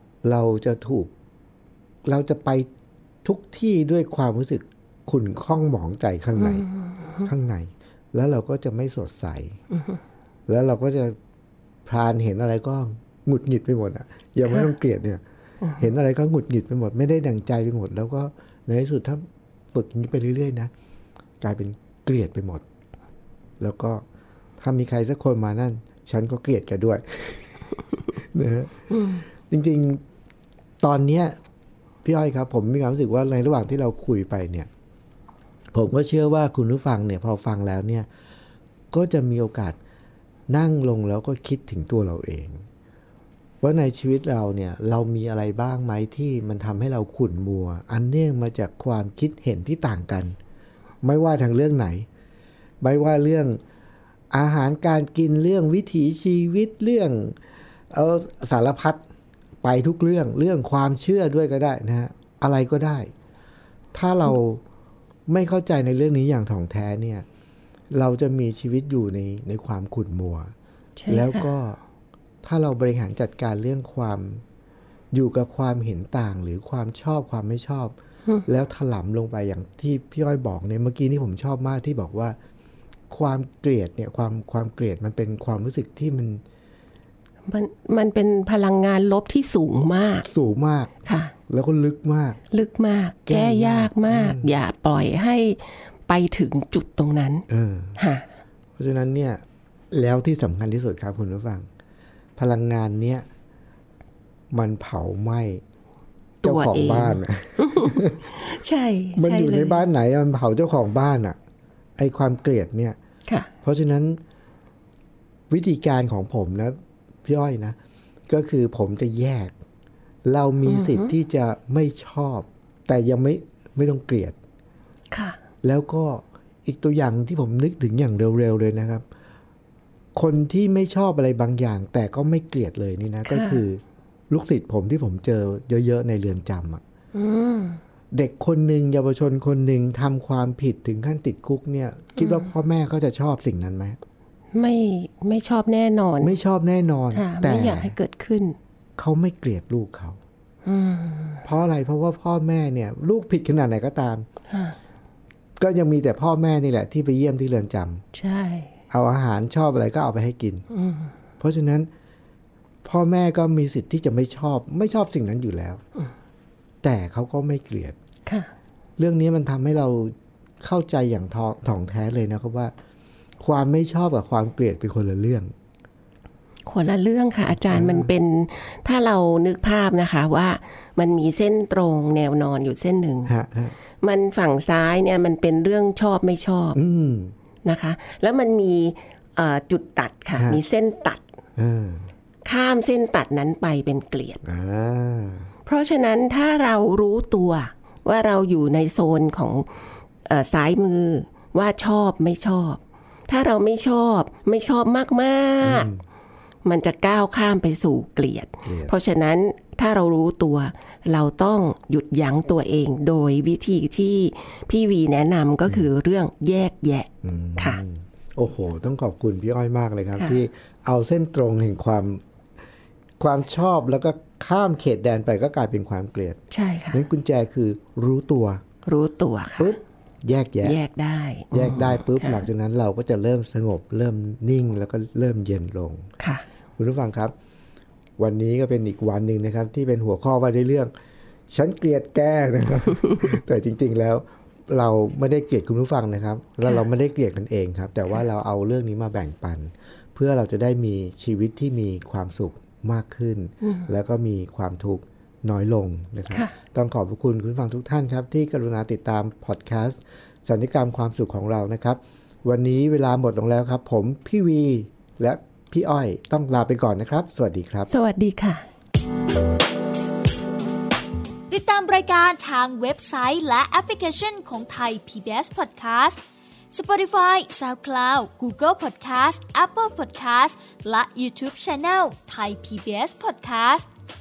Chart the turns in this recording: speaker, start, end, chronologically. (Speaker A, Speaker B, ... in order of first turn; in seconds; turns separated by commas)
Speaker A: 0.2-1.1, Speaker A: 2.0-2.7, Speaker A: 3.2-6.7, Speaker B: 6.4-7.3, Speaker A: 7.2-9.6, Speaker A: 10.5-11.2, Speaker A: 11.9-15.2, Speaker A: 15.8-20.7, Speaker A: 21.4-22.6, Speaker A: 23.6-24.0, Speaker A: 24.6-30.0, Speaker A: 30.8-31.4, Speaker A: 32.0-34.7, Speaker A: 35.7-38.1, Speaker A: 38.9-39.8, Speaker A: 40.5-42.7, Speaker A: 43.6-50.4, Speaker A: 51.0-52.1, Speaker A: 52.8-53.6, Speaker A: 54.3-57.4, Speaker A: 57.9-59.0, Speaker A: 59.6-63.1, Speaker A: 63.9-64.6, Speaker A: 65.3-67.2, Speaker A: 67.9-70.5, Speaker B: 71.0-71.5, Speaker A: 71.1-71.8, Speaker A: 72.4-74.4, Speaker A: 75.1-78.0, Speaker A: 78.5-82.4, Speaker A: 83.1-86.4, Speaker B: 87.5-90.3, Speaker A: 90.2-90.9, Speaker B: 91.0-91.3, Speaker A: 91.5-92.4, Speaker B: 92.5-97.5, Speaker A: 93.3-94.5, Speaker A: 97.5-98.0, Speaker B: 98.0-98.3, Speaker A: 98.8-101.7, Speaker A: 102.4-103.3, Speaker A: 104.5-105.6, Speaker A: 106.4-108.3, Speaker B: 106.4-109.8, Speaker A: 109.2-111.4, Speaker A: 112.0-113.0, Speaker A: 113.6-114.2, Speaker A: 115.5-117.8, Speaker A: 118.3-119.5, Speaker A: 120.2-124.4, Speaker B: 120.7-121.1, Speaker B: 125.1-125.4, Speaker A: 125.6-129.1, Speaker A: 130.2-136.8, Speaker B: 133.3-133.6, Speaker B: 137.1-137.8, Speaker A: 138.1-144.0, Speaker B: 142.2-142.4, Speaker B: 144.5-146.3, Speaker A: 146.2-147.9, Speaker B: 147.1-148.6, Speaker A: 149.0-150.2, Speaker B: 150.7-151.4, Speaker A: 151.4-154.3, Speaker B: 154.5-154.8, Speaker A: 155.6-158.0, Speaker B: 158.1-158.7, Speaker A: 158.9-160.7, Speaker B: 160.7-161.1, Speaker A: 161.4-161.9, Speaker A: 162.8-165.8, Speaker A: 166.8-168.0, Speaker B: 168.3-168.5, Speaker A: 169.0-172.7, Speaker A: 173.4-175.5, Speaker B: 176.7-183.3, Speaker A: 177.7-178.1, Speaker A: 183.3-183.8, Speaker B: 184.0-186.8, Speaker A: 186.8-187.3, Speaker B: 187.7-191.2, Speaker A: 191.6-192.1, Speaker B: 192.4-194.4, Speaker A: 194.4-195.5, Speaker B: 195.7-205.9, Speaker A: 205.6-206.0, Speaker B: 206.6-217.8, Speaker A: 208.7-208.9, Speaker A: 217.2-222.2, Speaker A: 223.2-226.4, Speaker B: 226.5-227.0, Speaker A: 226.9-228.6, Speaker B: 228.8-229.8, Speaker A: 229.6-230.8, Speaker B: 230.6-232.5, Speaker A: 231.5-236.1, Speaker B: 236.2-236.4, Speaker A: 236.8-237.3, Speaker A: 238.2-240.9, Speaker A: 241.5-267.9, Speaker B: 253.6-253.9, Speaker B: 267.9-268.6, Speaker C: 271.5-276.2, Speaker C: 276.7-283.9